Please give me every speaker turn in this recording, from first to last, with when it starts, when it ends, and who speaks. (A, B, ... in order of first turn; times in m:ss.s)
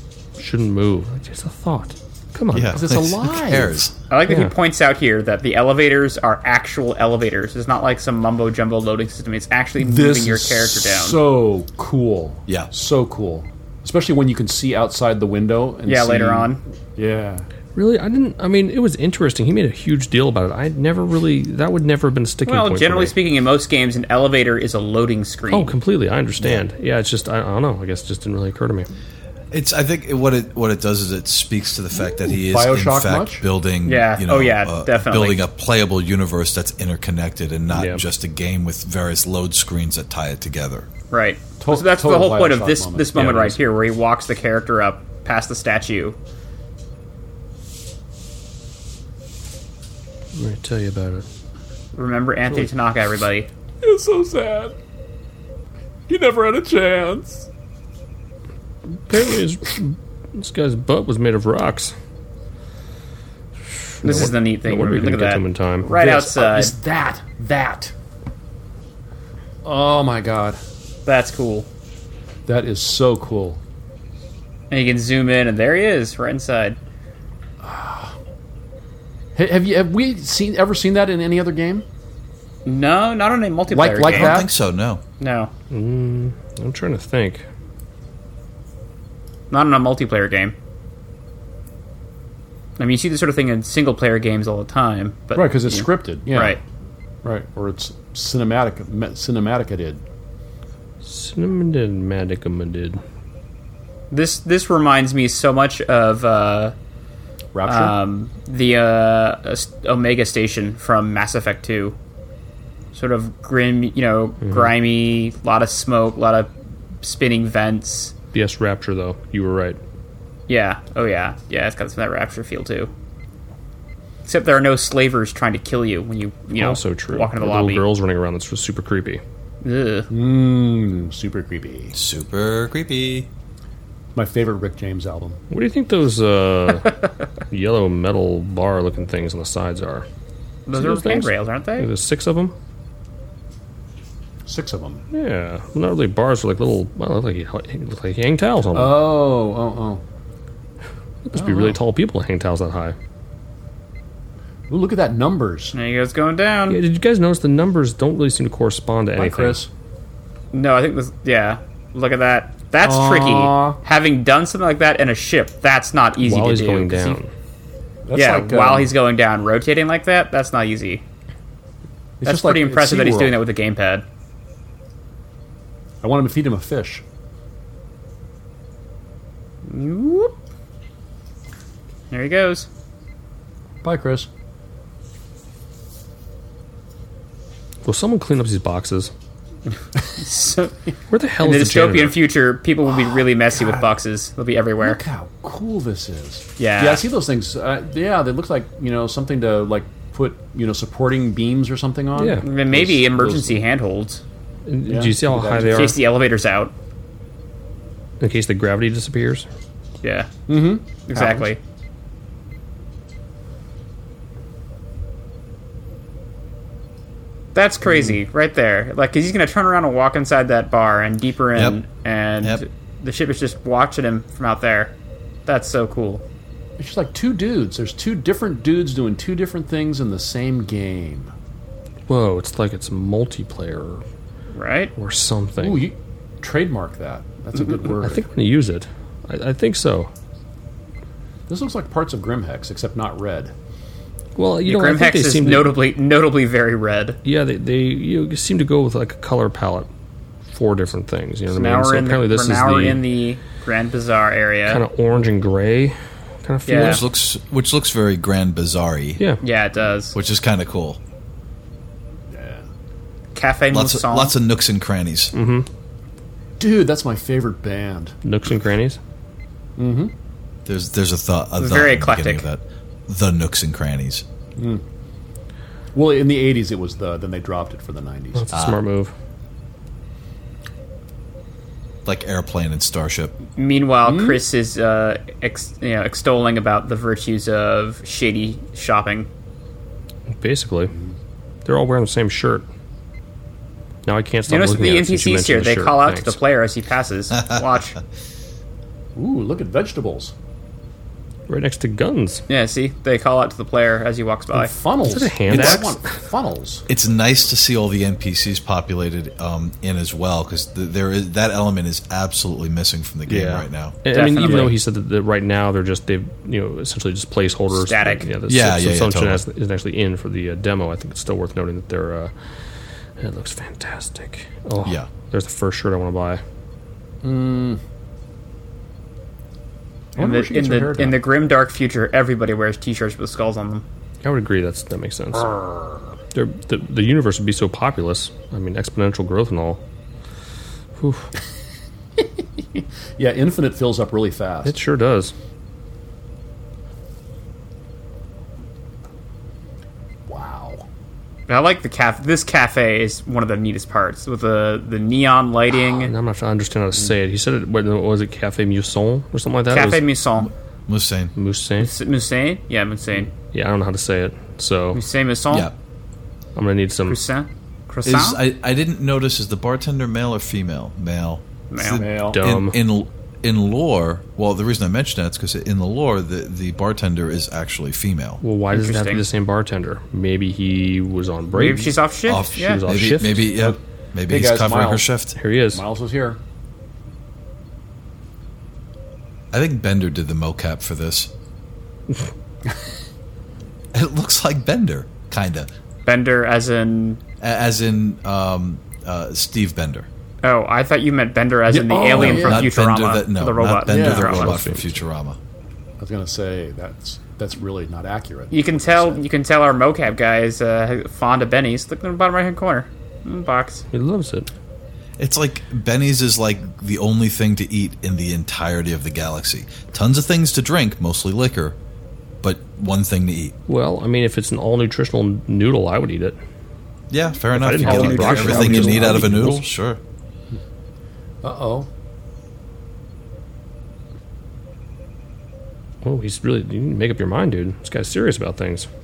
0:00.4-0:02.8 A
0:02.5-0:03.9 B
0:02.7-0:03.8 C
0:04.1-0:11.2 D
0:04.3-0:04.5 A
0:09.8-0:17.4 C
0:15.8-0:16.6 D
0:17.7-0:23.1 A
0:22.4-0:25.7 D
0:25.5-0:28.9 A
0:29.5-0:40.9 B
0:32.1-0:33.4 C
0:33.8-0:35.4 D
0:37.7-0:38.0 A
0:41.1-0:46.2 D
0:41.6-0:43.1 C
0:43.1-0:43.6 A
0:50.3-0:51.2 A
0:51.9-0:53.5 D
0:53.8-0:54.7 C
0:56.1-0:57.5 C
0:58.9-1:01.9 A
1:04.0-1:06.0 A
1:04.0-1:06.7 D
1:06.0-1:07.9 C
1:09.6-1:10.6 C
1:11.0-1:11.7 D
1:12.4-1:13.6 C
1:14.7-1:16.8 D
1:17.6-1:18.1 C
1:19.4-1:21.8 C
1:22.6-1:24.4 D
1:23.7-1:24.5 C
1:24.1-1:25.0 B
1:25.2-1:25.5 D
1:25.7-1:27.4 A
1:29.5-1:30.5 D
1:32.8-1:36.6 D
1:35.3-1:36.6 C
1:37.2-1:40.0 C
1:41.0-1:43.0 A
1:44.1-1:46.7 D
1:47.5-1:47.9 C
1:47.6-1:52.0 D
1:52.9-1:56.5 D
1:57.0-1:58.1 D
1:58.3-1:59.8 A
2:00.5-2:02.9 D
2:04.2-2:07.8 D
2:06.5-2:09.2 A
2:09.6-2:10.1 D
2:10.1-2:11.9 C
2:11.9-2:13.3 B
2:14.1-2:15.4 C
2:15.5-2:17.0 A
2:17.5-2:20.0 A
2:20.6-2:21.9 D
2:20.7-2:22.5 A
2:24.4-2:25.0 C
2:25.1-2:29.1 A
2:28.7-2:30.0 C
2:31.2-2:33.0 A
2:31.3-2:31.8 C
2:34.7-2:35.7 C
2:35.7-2:36.8 D
2:36.7-2:39.6 A
2:39.1-2:39.7 C
2:40.5-2:47.2 D
2:42.8-2:43.8 C
2:46.2-2:47.3 A
2:48.1-2:48.9 C
2:48.1-2:51.0 D
2:52.2-2:53.4 C
2:52.2-2:54.0 D
2:56.0-2:57.0 C
2:59.6-3:00.3 D
3:02.1-3:02.7 D
3:03.8-3:04.3 C
3:07.8-3:09.1 A
3:10.1-3:10.7 D
3:11.1-3:12.2 A
3:11.4-3:15.0 D
3:13.5-3:13.9 C
3:14.8-3:23.3 C
3:16.6-3:17.0 D
3:22.2-3:23.3 A
3:22.4-3:24.2 D
3:24.6-3:26.0 A
3:24.8-3:26.0 C
3:25.6-3:26.7 D
3:28.2-3:29.4 A
3:30.0-3:30.3 D
3:30.5-3:31.5 C
3:31.0-3:31.6 D
3:37.5-3:44.9 D
3:37.8-3:38.2 C
3:45.4-3:46.2 D
3:46.8-3:51.3 C
3:52.1-3:54.0 A
3:54.5-3:54.9 D
3:55.0-3:55.9 A
3:55.6-3:58.2 C
3:57.9-4:00.1 A
4:01.5-4:03.5 C
4:04.4-4:05.7 A
4:04.6-4:07.2 D
4:07.2-4:09.9 A
4:10.5-4:13.0 A
4:11.5-4:14.8 D
4:14.7-4:17.0 A
4:16.6-4:17.0 D
4:16.7-4:19.2 B
4:19.4-4:20.2 D
4:20.1-4:21.0 B
4:22.3-4:22.7 C
4:23.3-4:24.3 D
4:23.7-4:25.3 B
4:25.3-4:25.7 A
4:26.6-4:28.1 C
4:28.2-4:29.0 A
4:29.8-4:30.1 C
4:30.6-4:34.2 B
4:31.6-4:32.4 D
4:34.6-4:34.8 C
4:35.9-4:38.4 C
4:38.3-4:39.1 A
4:38.5-4:38.8 B
4:42.0-4:43.3 B
4:43.5-4:49.3 D
4:44.0-4:44.4 C
4:50.4-4:50.9 A
4:51.6-4:52.6 A
4:54.0-4:56.4 A
4:54.5-4:58.0 D
4:59.2-5:00.3 C
5:01.5-5:02.4 A
5:02.5-5:04.7 D
5:04.5-5:06.8 C
5:05.0-5:06.0 A
5:06.9-5:14.0 B
5:13.3-5:22.3 A
5:14.1-5:14.8 D
5:17.7-5:18.3 D
5:18.5-5:19.4 B
5:23.2-5:26.4 A
5:24.8-5:25.1 B
5:27.2-5:27.8 C
5:30.2-5:31.2 C
5:30.2-5:33.8 D
5:34.2-5:35.5 A
5:35.5-5:36.0 C
5:36.3-5:39.8 A
5:41.0-5:41.3 A
5:42.2-5:44.7 C
5:44.6-5:45.3 A
5:50.3-5:50.8 C
5:51.5-5:56.1 D
5:55.8-6:00.0 A
5:59.7-6:00.5 D
6:00.4-6:01.3 B
6:01.4-6:01.9 A
6:01.8-6:03.3 D
6:03.5-6:05.0 A
6:04.9-6:05.7 D
6:06.6-6:07.2 A
6:07.1-6:08.4 D
6:08.0-6:18.4 B
6:11.7-6:12.0 D
6:12.0-6:12.4 C
6:12.2-6:12.8 A
6:18.4-6:23.5 A
6:18.7-6:19.2 D
6:21.5-6:22.8 D
6:22.3-6:25.4 B
6:23.6-6:25.1 C
6:25.4-6:25.8 A
6:25.7-6:26.4 C
6:29.5-6:31.3 B
6:33.9-6:35.7 B
6:36.0-6:37.2 D
6:37.4-6:40.1 B
6:40.4-6:44.6 D
6:41.7-6:42.7 C
6:42.1-6:45.4 B
6:43.9-6:44.4 C
6:44.2-6:45.0 A
6:46.0-6:49.2 C
6:48.5-6:53.8 D
6:53.9-6:54.5 A
6:55.2-7:01.8 B
7:02.4-7:03.6 B
7:03.7-7:06.4 A
7:07.1-7:10.0 B
7:07.5-7:09.6 A
7:07.8-7:09.4 D
7:11.4-7:11.9 C
7:16.0-7:18.9 A